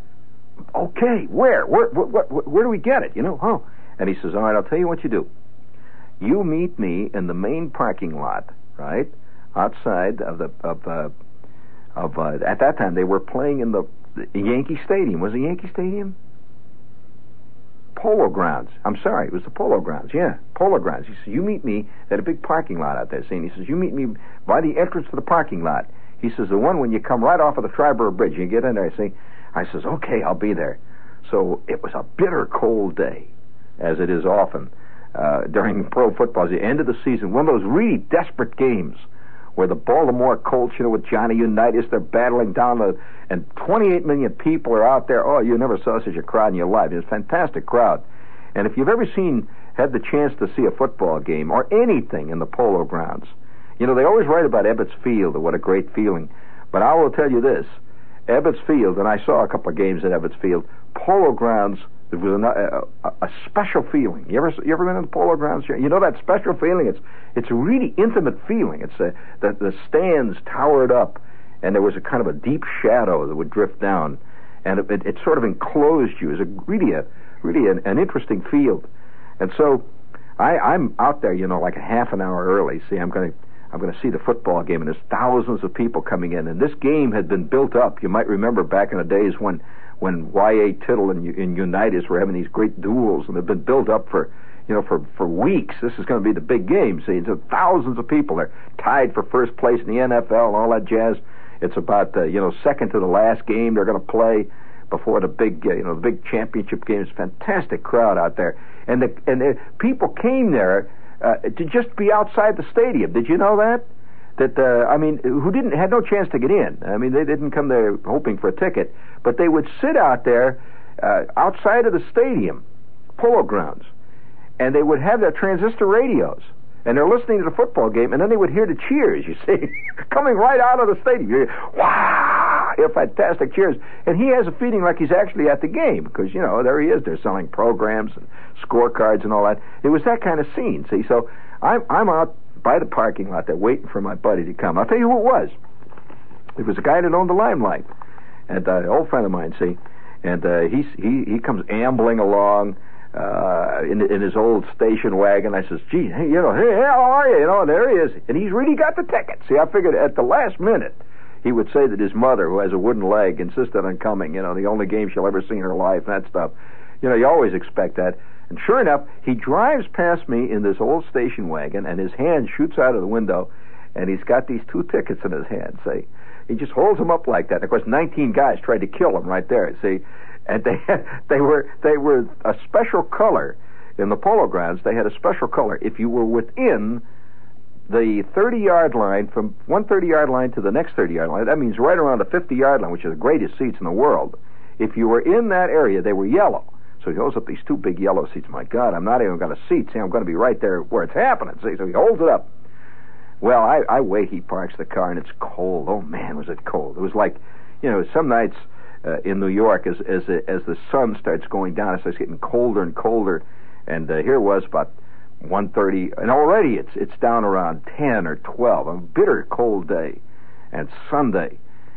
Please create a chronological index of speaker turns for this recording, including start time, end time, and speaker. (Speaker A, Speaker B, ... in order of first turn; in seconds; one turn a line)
Speaker A: 0.7-5.3
Speaker A: 6.2-11.1
Speaker A: 11.9-16.1
Speaker A: 17.9-39.0
Speaker A: 39.6-48.0
Speaker A: 48.5-57.7
Speaker A: 58.3-78.9
Speaker A: 79.4-79.9
Speaker A: 80.4-113.9
Speaker A: 114.4-122.6
Speaker A: 123.2-123.9
Speaker A: 124.6-145.6
Speaker A: 146.6-147.9
Speaker A: 148.5-187.0
Speaker A: 187.9-202.5
Speaker A: 203.4-220.2
Speaker A: 220.7-221.6